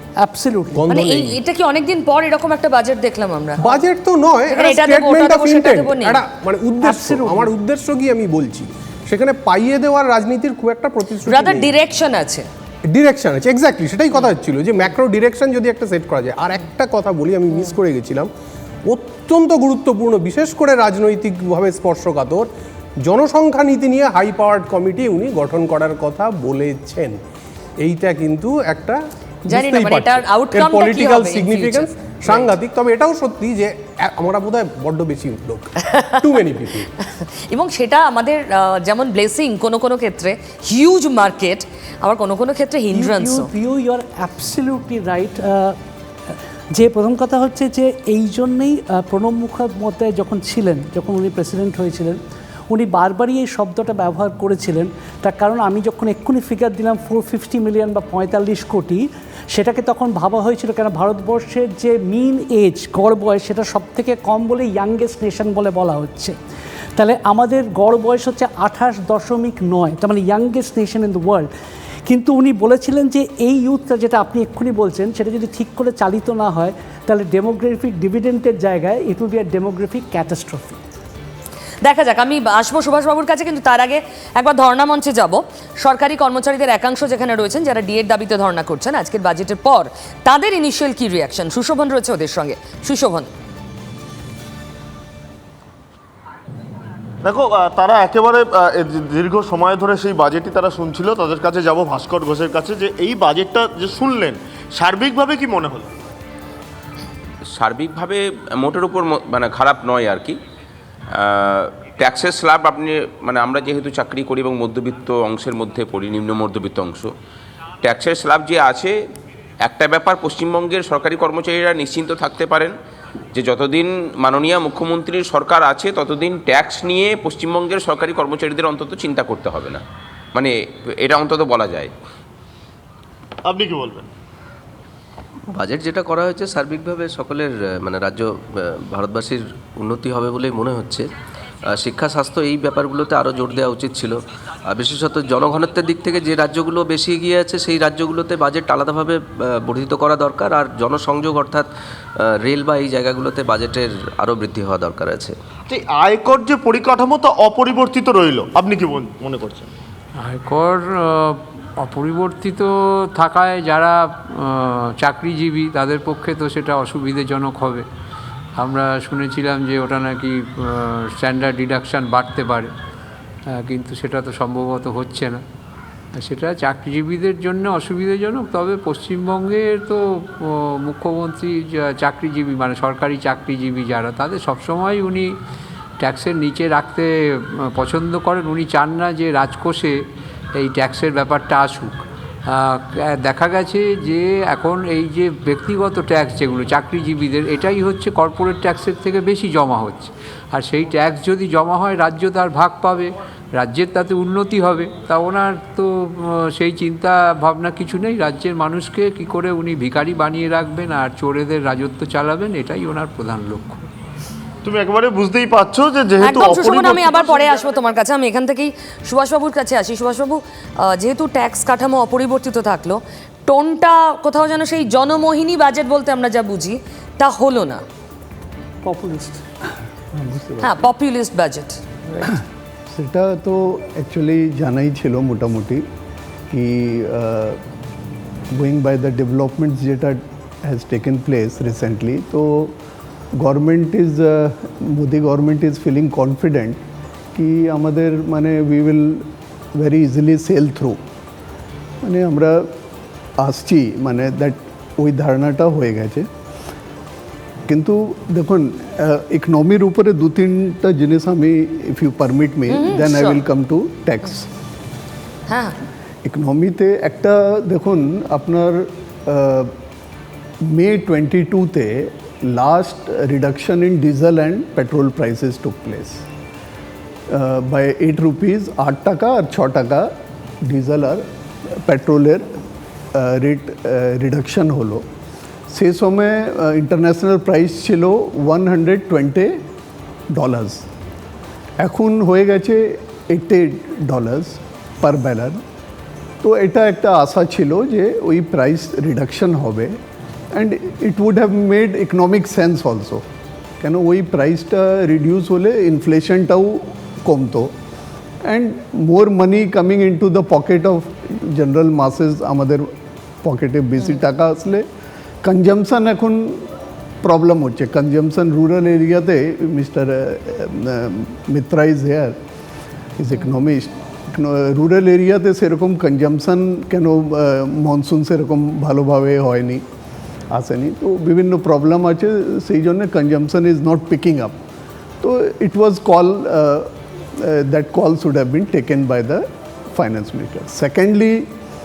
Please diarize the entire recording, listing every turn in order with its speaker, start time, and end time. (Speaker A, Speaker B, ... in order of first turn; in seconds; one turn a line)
Speaker A: 0.2-0.8
Speaker B: 0.7-1.4
Speaker C: 0.9-3.8
Speaker B: 3.6-11.7
Speaker C: 4.5-6.2
Speaker A: 6.8-7.5
Speaker C: 11.3-12.4
Speaker B: 12.9-18.3
Speaker B: 18.9-22.5
Speaker B: 23.0-27.2
Speaker B: 27.8-36.9
Speaker C: 29.5-32.5
Speaker C: 35.9-36.2
Speaker C: 37.5-43.5
Speaker A: 42.9-45.8
Speaker A: 46.7-52.2
Speaker A: 52.7-66.3
Speaker A: 67.0-71.5
Speaker A: 72.0-80.8
Speaker C: 81.8-93.3
Speaker D: 97.2-105.9
Speaker E: 107.5-110.4
Speaker E: 111.1-117.1
Speaker E: 117.8-118.9
Speaker E: 119.6-122.7
Speaker E: 123.3-129.8
Speaker E: 130.3-131.9
Speaker D: 133.4-134.1
Speaker F: 135.5-141.1
Speaker F: 141.7-151.7
Speaker F: 152.2-155.3
Speaker D: 155.7-159.7
Speaker G: 160.2-167.8
Speaker G: 168.6-172.7
Speaker G: 173.5-175.4
Speaker G: 176.1-185.4
Speaker G: 186.0-213.8
Speaker D: 214.6-217.5
Speaker C: 216.2-227.8
Speaker A: 228.8-229.4
Speaker H: 230.1-230.8
Speaker C: 230.6-231.8
Speaker H: 232.9-235.8
Speaker H: 236.5-237.6
Speaker H: 238.5-242.8
Speaker H: 243.3-246.8
Speaker H: 247.3-251.0
Speaker H: 252.0-252.7
Speaker H: 253.4-256.3
Speaker H: 257.7-264.5
Speaker C: 262.7-263.4
Speaker C: 265.5-265.7
Speaker H: 266.2-269.7
Speaker H: 270.6-276.2
Speaker H: 277.3-282.6
Speaker H: 283.1-285.0
Speaker H: 285.7-289.6
Speaker H: 290.3-290.8
Speaker H: 291.8-295.6
Speaker H: 296.4-300.0
Speaker H: 300.5-303.2
Speaker H: 303.8-307.7
Speaker H: 308.4-312.9
Speaker H: 313.4-314.8
Speaker H: 315.4-316.7
Speaker H: 317.2-322.4
Speaker H: 323.2-329.8
Speaker H: 330.5-334.6
Speaker H: 335.2-341.5